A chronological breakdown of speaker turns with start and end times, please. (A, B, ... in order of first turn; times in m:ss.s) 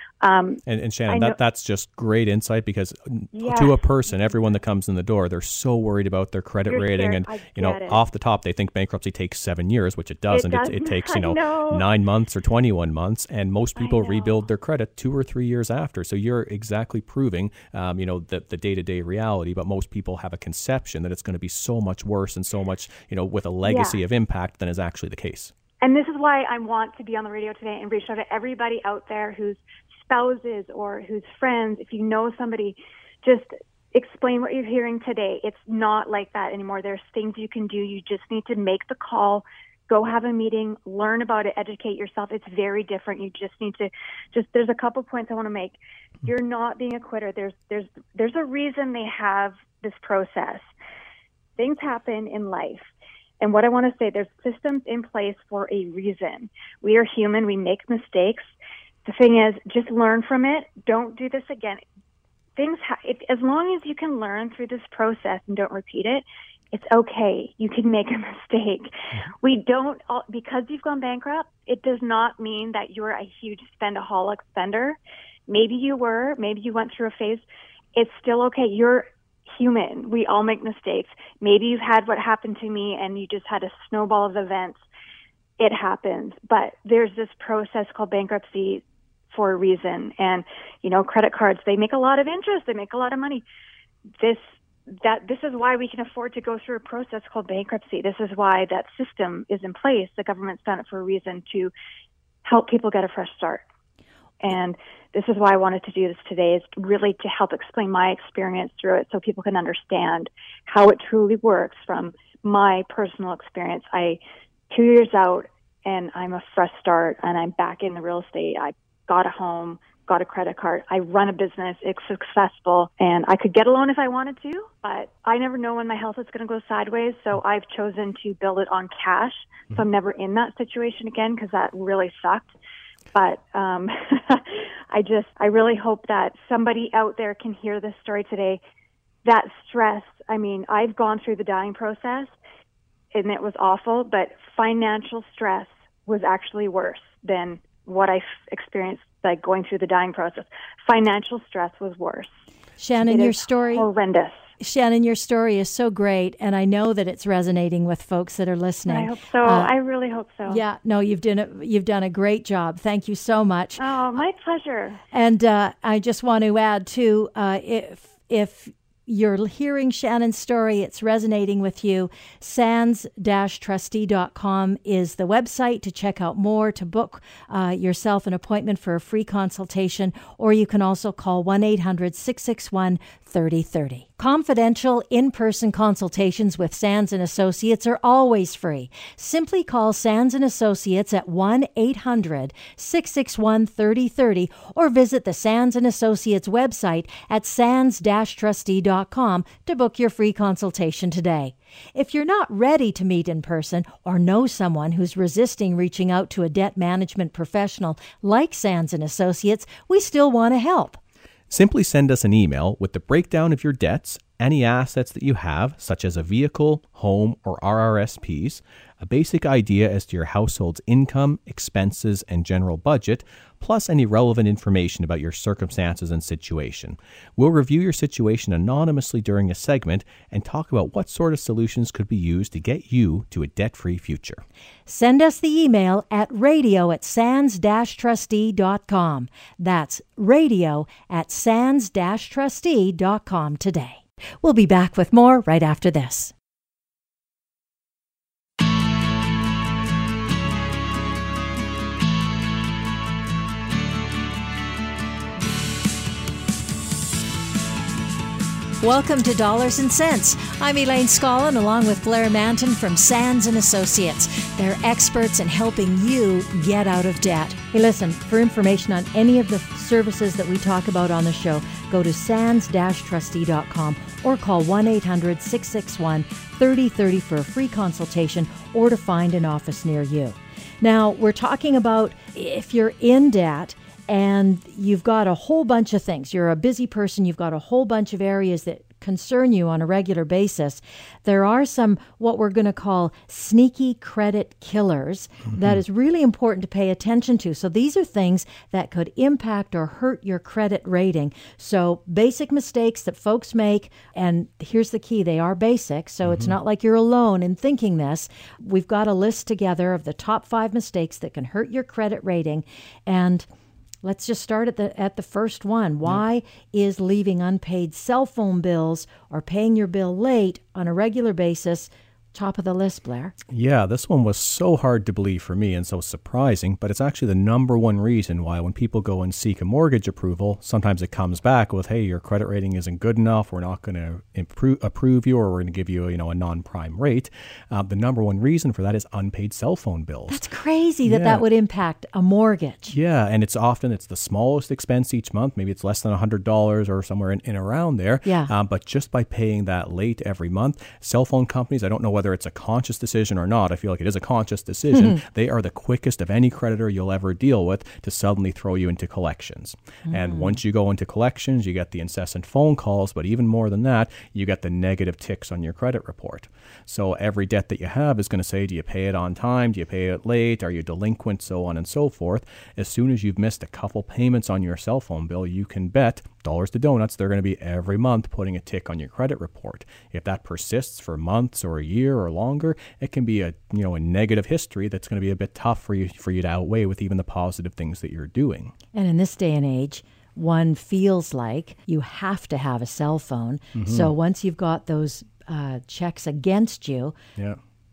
0:00.2-0:01.4 A
0:00.6-0:25.5 B
0:03.3-0:03.8 A
0:06.7-0:08.0 A
0:10.3-0:11.8 A
0:13.8-0:14.4 A
0:23.6-0:24.0 A
0:25.8-0:50.7 A
0:51.6-0:58.5 A
0:59.0-1:01.8 A
1:02.6-1:08.9 A
1:09.4-1:17.4 A
1:17.9-1:24.8 A
1:25.6-1:33.4 A
1:34.2-1:41.7 A
1:42.4-1:43.6 A
1:44.4-1:54.2 A
1:54.7-2:12.5 A
2:13.1-2:18.6 A
2:19.2-2:22.3 A
2:23.1-2:32.3 A
2:32.8-2:33.9 C
2:33.1-2:34.4 A
2:34.6-2:39.7 C
2:38.9-2:40.6 A
2:40.4-2:43.8 C
2:43.8-2:45.0 A
2:45.1-3:31.0 C
3:31.5-3:54.4 B
3:54.9-4:06.3 C
4:18.8-5:13.5 C
4:55.5-4:55.8 B
5:06.2-5:06.6 B
5:14.0-5:23.3 C
5:23.5-5:40.4 B
5:40.3-5:43.0 C
5:41.0-5:41.4 B
5:42.9-6:28.7 B
5:48.2-5:48.5 C
5:54.9-5:55.2 C
6:00.1-6:00.6 C
6:28.9-6:37.1 C
6:33.7-6:34.1 B